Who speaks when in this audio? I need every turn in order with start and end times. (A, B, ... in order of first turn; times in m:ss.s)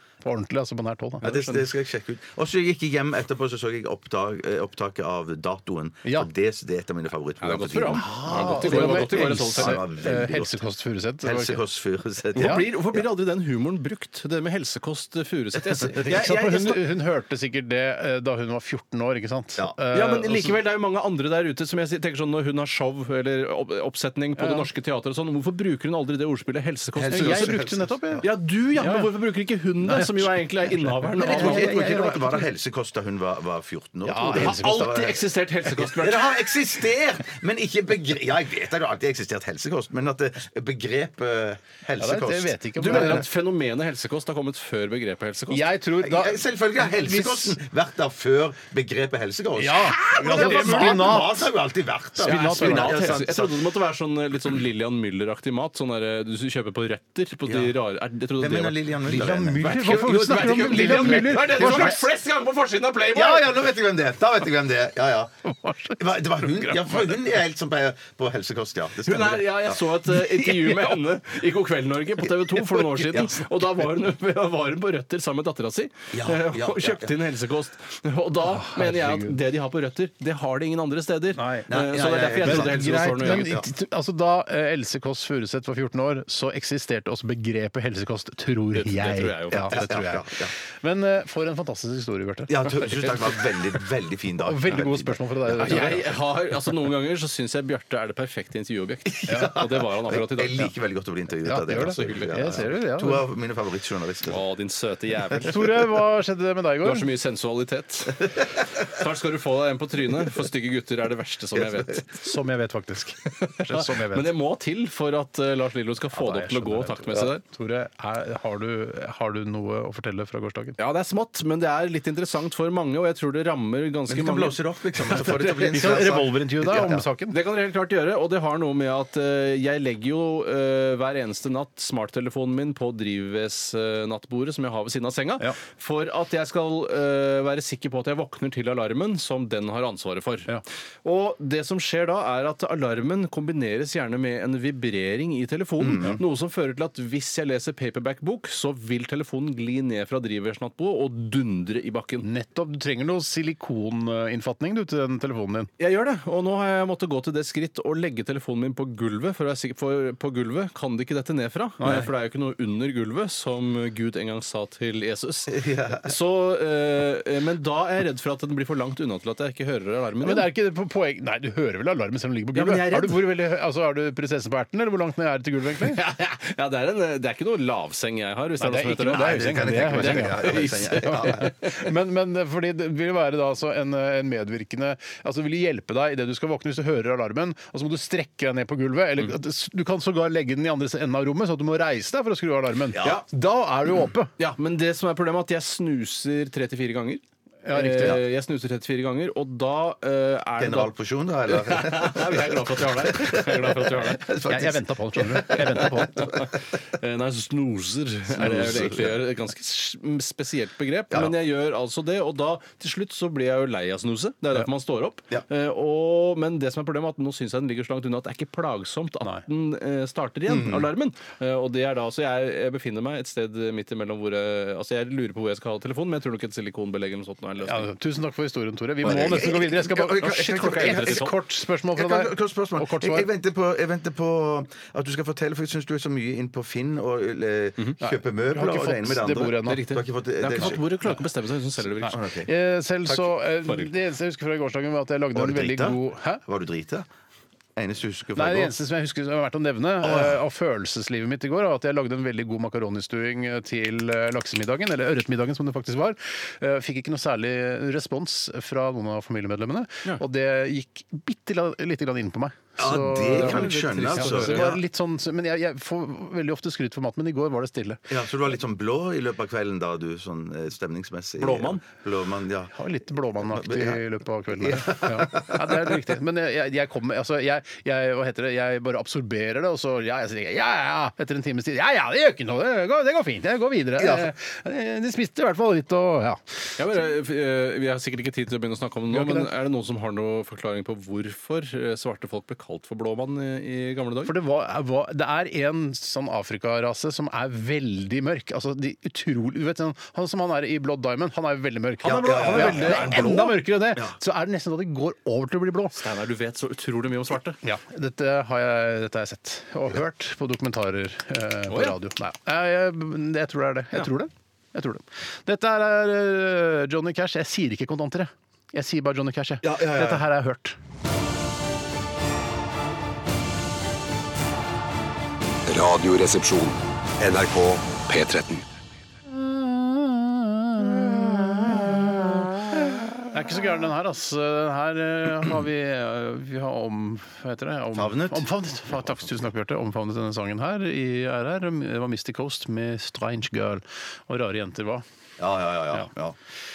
0:00.2-0:01.4 A
0:01.2-0:10.6 B
0:01.2-0:01.6 C
0:07.4-0:09.8 C
0:07.9-0:11.6 A
0:11.2-0:13.0 B
0:12.4-0:16.8 C
0:12.4-0:12.6 A
0:16.0-0:20.5 A
0:19.9-0:27.6 C
0:24.4-0:24.7 A
0:27.0-0:28.2 B
0:27.1-0:28.2 A
0:28.2-0:32.0 C
0:28.8-0:29.1 A
0:29.8-0:32.5 A
0:31.2-0:43.2 B
0:34.0-0:35.1 A
0:34.3-0:36.3 C
0:42.0-0:43.3 A
0:42.8-0:45.7 C
0:45.5-0:47.6 A
0:46.0-0:53.6 B
0:49.6-0:51.5 A
0:50.1-0:51.2 C
0:52.2-0:53.2 A
0:52.2-1:03.6 C
0:57.5-0:57.7 B
0:58.4-1:02.0 B
0:59.1-1:02.0 A
1:03.1-1:05.3 B
1:05.4-1:07.2 A
1:06.0-1:10.2 B
1:09.0-1:23.5 C
1:12.8-1:13.2 A
1:13.1-1:13.4 B
1:16.1-1:17.1 B
1:18.5-1:19.4 A
1:21.3-1:21.7 A
1:21.7-1:23.7 B
1:22.4-1:33.1 A
1:28.7-1:29.9 C
1:29.5-1:30.5 B
1:32.5-1:36.0 B
1:34.4-1:36.1 A
1:35.5-1:40.7 C
1:39.1-1:44.4 B
1:39.3-1:39.5 A
1:41.4-1:43.2 A
1:41.8-1:42.6 C
1:44.2-1:45.9 C
1:45.4-1:47.1 A
1:46.8-1:52.0 C
1:51.6-1:52.0 B
1:52.2-1:54.3 A
1:53.4-1:57.4 C
1:56.1-2:00.8 A
2:00.8-2:04.6 C
2:04.1-2:07.0 B
2:05.2-2:06.2 C
2:05.6-2:07.4 A
2:07.3-2:32.3 C
2:25.8-2:26.2 B
2:32.2-2:35.7 A
2:35.8-2:50.5 C
2:41.8-2:42.1 A
2:45.5-2:46.1 B
2:50.2-2:56.0 A
2:52.5-2:53.4 C
2:55.7-3:01.7 C
2:58.6-3:14.3 A
2:59.1-3:01.5 B
3:12.9-3:13.2 B
3:14.4-3:20.9 C
3:17.6-3:18.2 A
3:20.6-3:26.4 B
3:21.4-3:24.2 C
3:24.5-3:26.4 A
3:26.4-3:47.9 C
3:28.3-3:29.2 B
3:40.5-3:40.9 B
3:47.6-3:53.3 A
3:49.0-3:51.3 B
3:49.0-3:51.4 C
3:51.9-4:00.8 B
3:58.0-3:59.9 A
3:59.6-4:02.2 C
4:00.5-4:01.1 A
4:02.0-4:06.4 A
4:02.1-4:02.5 B
4:03.1-4:03.9 C
4:05.3-4:07.1 B
4:07.8-4:08.7 B
4:08.4-4:28.1 A
4:10.0-4:10.4 B
4:22.8-4:24.8 B
4:23.2-4:24.8 C
4:28.1-4:32.7 B
4:31.4-4:31.8 C
4:32.7-4:46.4 A
4:33.5-4:34.0 B
4:34.6-4:35.9 B
4:44.0-4:44.3 B
4:46.8-4:54.4 C
4:49.1-4:49.5 A
4:54.2-5:06.0 A
5:02.0-5:04.1 B
5:02.1-5:03.7 C
5:05.9-5:07.6 C
5:07.6-5:20.8 A
5:11.7-5:12.0 C
5:19.6-5:20.2 B
5:25.7-5:28.6 D
5:29.3-5:45.0 A
5:37.9-5:38.4 B
5:45.4-5:46.4 B